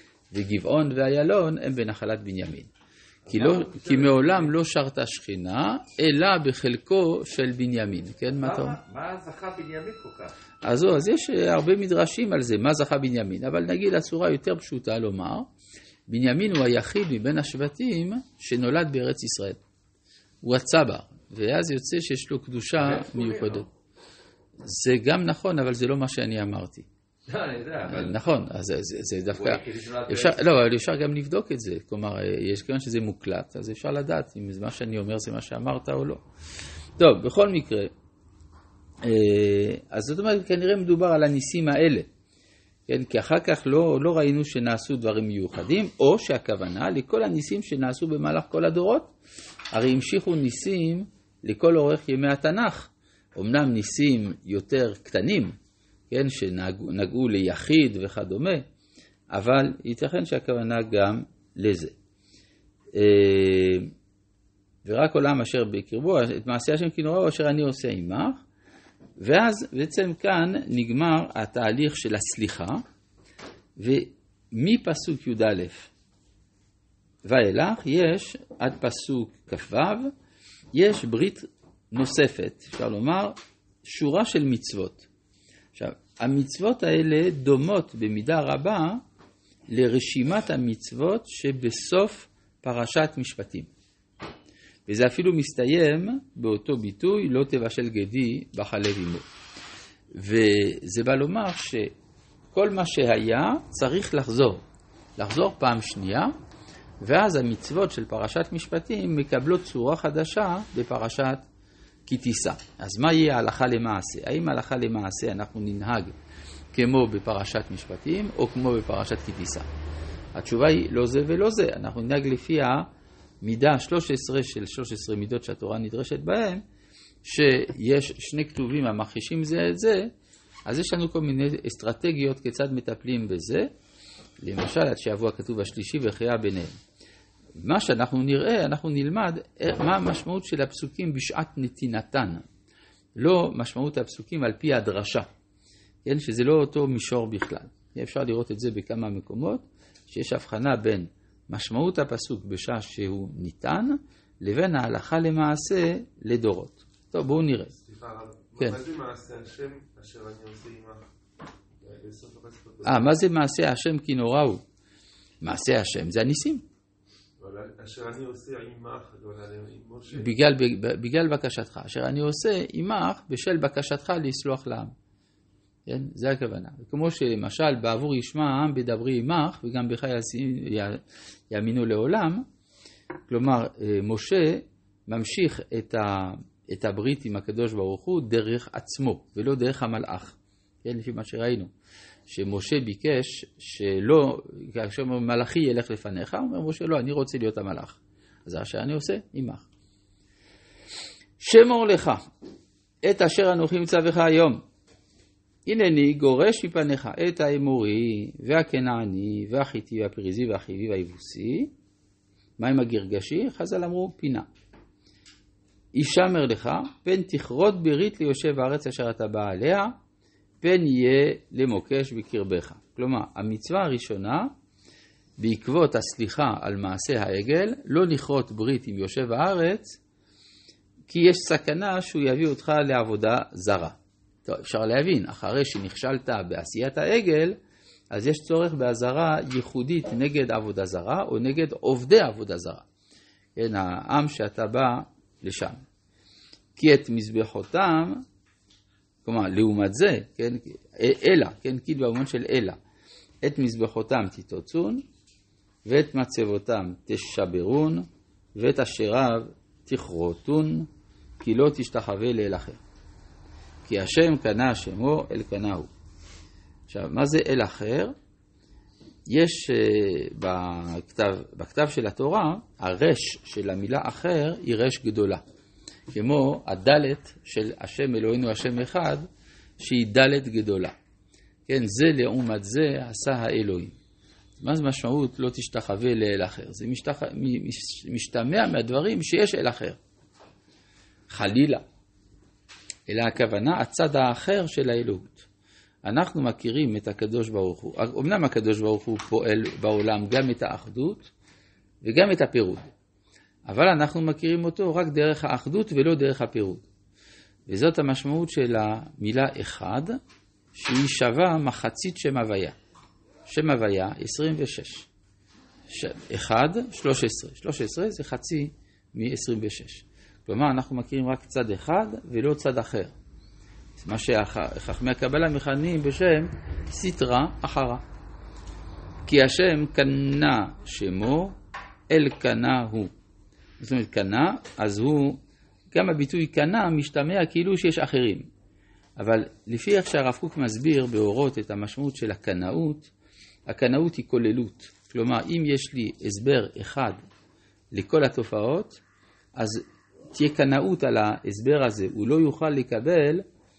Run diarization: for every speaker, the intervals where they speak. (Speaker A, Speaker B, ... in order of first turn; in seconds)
Speaker A: 0.3-2.7, 3.3-8.8, 10.7-15.5, 16.1-19.6, 20.4-23.7, 24.6-26.9, 27.9-36.2, 37.0-37.9, 39.0-42.1, 42.9-49.1, 49.7-55.5, 56.1-58.7, 59.3-62.0, 63.0-63.9, 64.8-68.4, 69.2-72.8, 73.8-75.9, 77.2-80.1, 80.8-85.1, 85.8-89.0, 89.7-93.7, 94.9-99.2, 100.2-101.9, 102.5-104.6, 105.2-106.3, 107.0-111.4, 112.1-116.2, 116.7-119.7, 120.3-122.9, 123.4-126.6, 127.2-130.1, 130.7-133.7, 134.4-136.8, 137.6-142.4, 143.2-145.3, 146.0-157.8, 162.8-164.6, 165.4-166.6, 170.2-174.9, 175.9-182.4, 183.3-191.7, 192.3-199.7, 201.4-202.2, 203.0-204.6, 205.7-211.7, 212.6-214.5, 215.9-219.9, 220.6-224.5, 225.4-229.9, 231.1-237.6, 238.1-242.8, 243.6-245.8, 246.8-248.2, 249.2-252.8, 253.4-255.0, 255.8-260.9, 261.4-262.8, 263.9-265.9, 266.9-268.1, 269.3-275.4, 276.1-279.2, 279.8-280.9, 281.7-283.9, 284.6-290.0, 291.3-291.8, 293.1-295.5, 296.0-301.3, 302.0-302.9, 303.7-306.9, 307.7-310.2, 310.8-312.8, 313.5-315.1, 315.9-323.1, 324.0-328.0, 329.2-331.5, 332.1-333.1, 333.8-335.4, 335.9-338.5, 339.2-343.1, 343.7-347.2, 347.9-349.0, 349.6-353.4
Speaker B: 3.3-4.5, 8.4-10.3, 22.8-23.6, 27.3-28.2, 29.3-30.5
Speaker C: 157.8-161.0, 161.8-163.1, 167.4-170.3